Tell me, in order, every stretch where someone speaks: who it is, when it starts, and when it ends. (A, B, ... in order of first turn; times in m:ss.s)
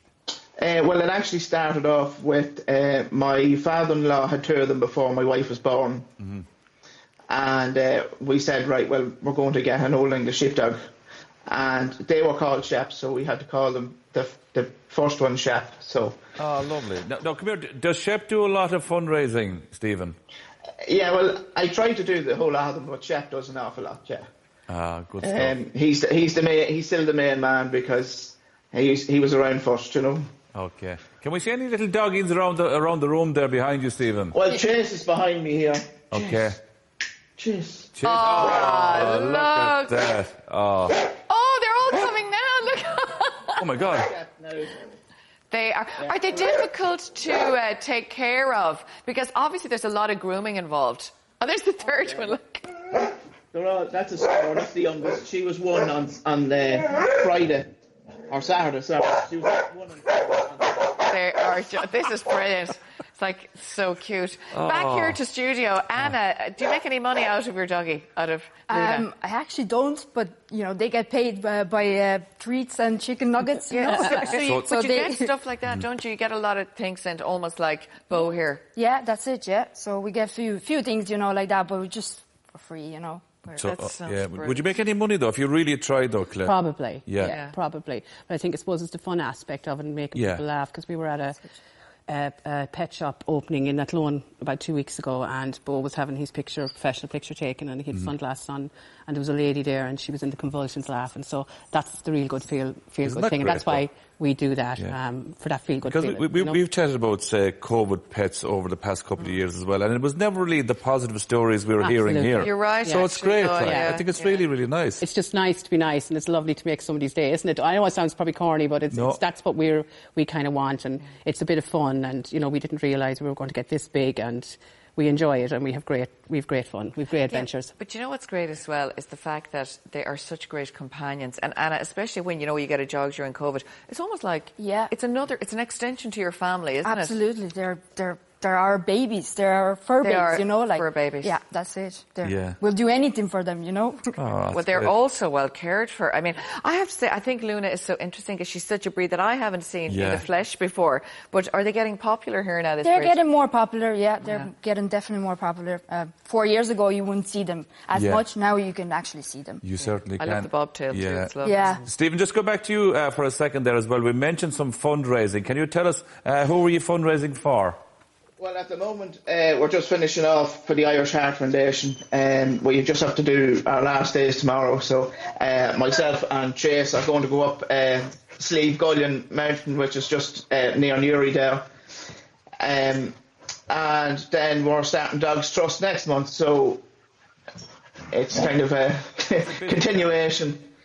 0:00.6-0:06.1 A
0:07.3-0:10.8 A
0:11.5-0:16.2 A
0:16.4-0:20.2 B
0:20.8-0:24.3 A
0:24.7-0:25.5 B
0:25.2-0:30.3 A
0:30.5-0:34.4 B
0:34.3-0:36.3 A
0:36.1-0:36.6 B
0:37.4-0:39.1 A
0:38.0-0:41.0 B
0:38.0-0:40.2 C
0:41.3-0:43.6 C
0:43.6-0:44.1 B
0:43.8-0:44.8 A
0:45.5-0:52.7 C
0:53.5-0:57.7 A
0:58.3-1:00.9 A
1:01.0-1:09.1 C
1:04.5-1:05.2 B
1:08.7-1:15.3 D
1:13.7-1:18.6 C
1:13.9-1:14.3 E
1:14.4-1:14.7 B
1:18.7-1:23.7 D
1:23.5-1:27.4 B
1:23.6-1:24.6 C
1:26.4-1:31.4 E
1:27.2-1:27.6 C
1:30.1-1:30.4 B
1:32.1-1:46.6 E
1:43.0-1:43.8 B
1:45.8-1:55.0 B
1:51.8-1:54.0 E
1:52.4-1:54.3 C
1:55.0-2:07.7 E
1:58.9-1:59.2 B
2:07.3-2:17.2 C
2:14.6-2:14.9 D
2:16.8-2:24.1 D
2:20.0-2:21.3 C
2:22.2-2:22.6 B
2:24.2-2:24.9 B
2:24.5-2:33.2 C
2:29.9-2:30.2 B
2:32.8-2:39.6 D
2:37.9-2:38.2 B
2:39.6-2:47.8 B
2:40.2-2:41.8 C
2:41.4-2:41.8 D
2:48.4-3:01.6 A
3:02.6-3:03.2 A
3:03.7-3:06.8 A
3:08.1-3:10.7 A
3:09.5-3:09.8 B